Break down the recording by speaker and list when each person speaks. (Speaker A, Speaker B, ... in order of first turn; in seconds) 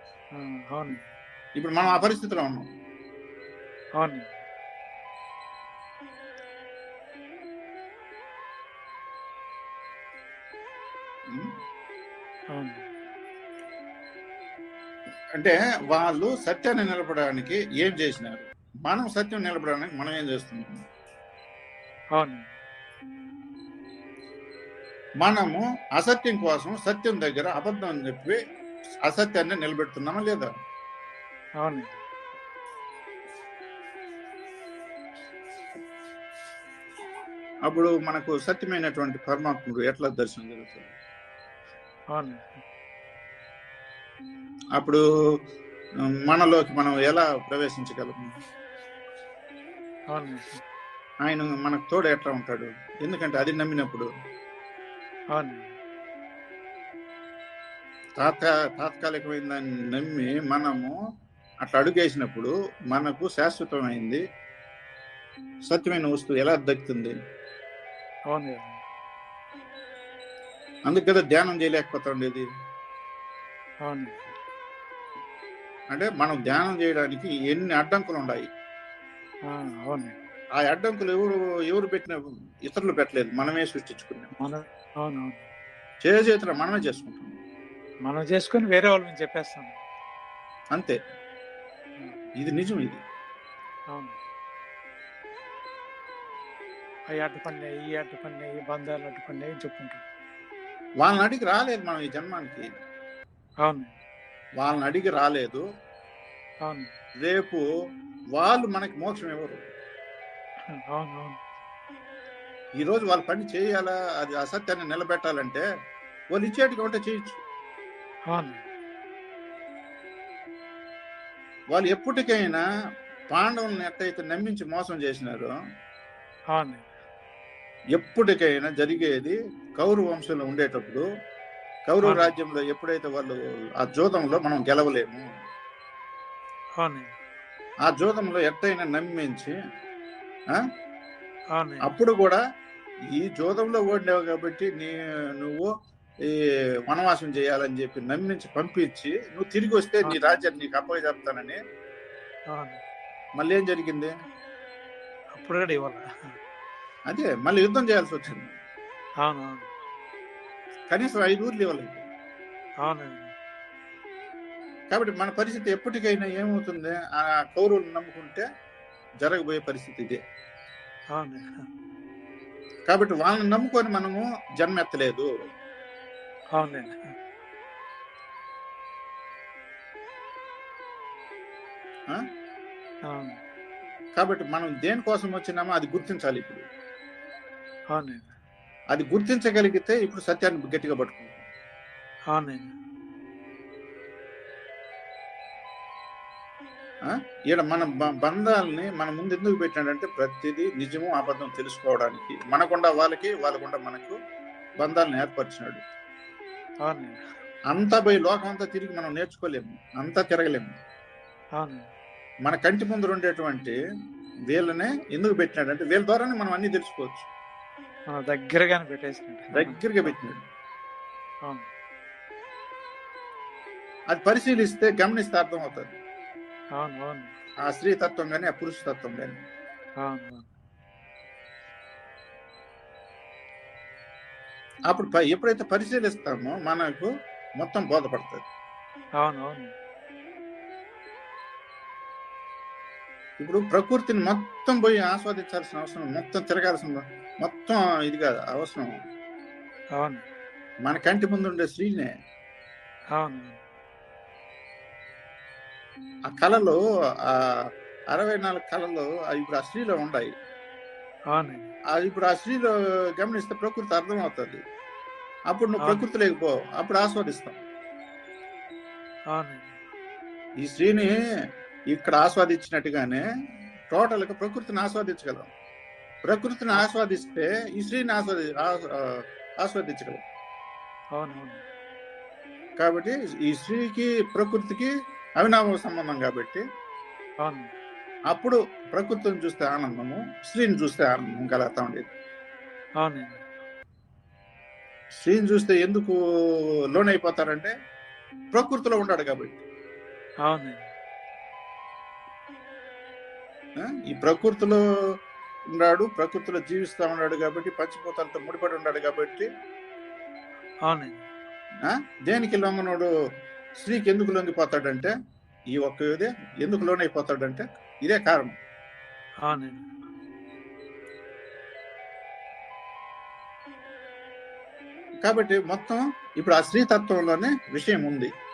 Speaker A: 0.4-1.0, 4.0-4.3, 12.6-12.8, 22.1-22.5, 31.6-31.9, 42.1-42.4, 50.1-50.6, 55.4-55.7, 68.3-68.8, 73.8-74.3, 79.5-80.2, 84.4-85.4, 88.1-89.8, 97.1-100.0, 103.6-103.9, 106.7-106.9, 110.8-111.4, 118.3-118.7, 126.5-126.9, 132.0-132.3, 136.8-137.1, 141.6-141.9, 152.5-152.8, 155.3-156.0, 159.2-159.7, 162.8-163.3, 171.2-171.7, 176.6-177.0, 183.1-183.4, 187.9-188.3, 192.3-192.7, 206.9-207.2, 211.6-211.8, 218.1-220.1, 226.8-227.3, 230.0-230.5, 239.2-239.7, 250.0-250.2, 253.2-253.6, 261.3-261.7, 269.3-269.7, 281.1-281.6, 287.4-287.7, 293.0-293.4, 300.4-300.8, 310.9-311.2, 319.4-319.8
Speaker B: 1.6-2.6, 15.4-20.8, 25.2-28.4, 29.1-30.5, 37.7-40.9, 46.2-48.2, 51.3-54.1, 58.2-61.0, 61.6-64.2, 65.7-67.2, 70.9-72.5, 75.9-78.5, 80.6-84.3, 86.0-87.3, 92.4-93.0, 101.0-102.7, 104.6-105.7, 107.2-107.6, 108.4-109.6, 112.8-115.7, 116.3-117.4, 121.7-122.6, 123.3-125.5, 128.0-131.1, 131.9-135.3, 137.9-139.5, 141.8-142.4, 143.2-145.7, 146.9-151.6, 153.4-154.1, 157.1-158.5, 160.9-162.1, 164.9-168.4, 169.2-170.2, 172.9-175.3, 184.2-186.6, 188.9-191.4, 197.5-204.2, 204.8-205.8, 207.7-210.7, 212.5-213.8, 214.5-217.3, 219.5-220.4, 224.1-225.9, 227.7-229.4, 234.9-238.4, 243.4-248.9, 250.9-252.1, 256.3-257.5, 258.1-260.3, 261.9-264.6, 265.5-267.6, 270.6-271.1, 271.9-273.2, 273.9-275.5, 276.3-280.2, 282.8-286.6, 288.3-292.1, 295.2-296.2, 296.9-297.7, 298.5-299.6, 303.8-304.8, 305.8-309.5, 311.9-313.1, 313.8-315.1, 315.8-318.6, 325.2-328.3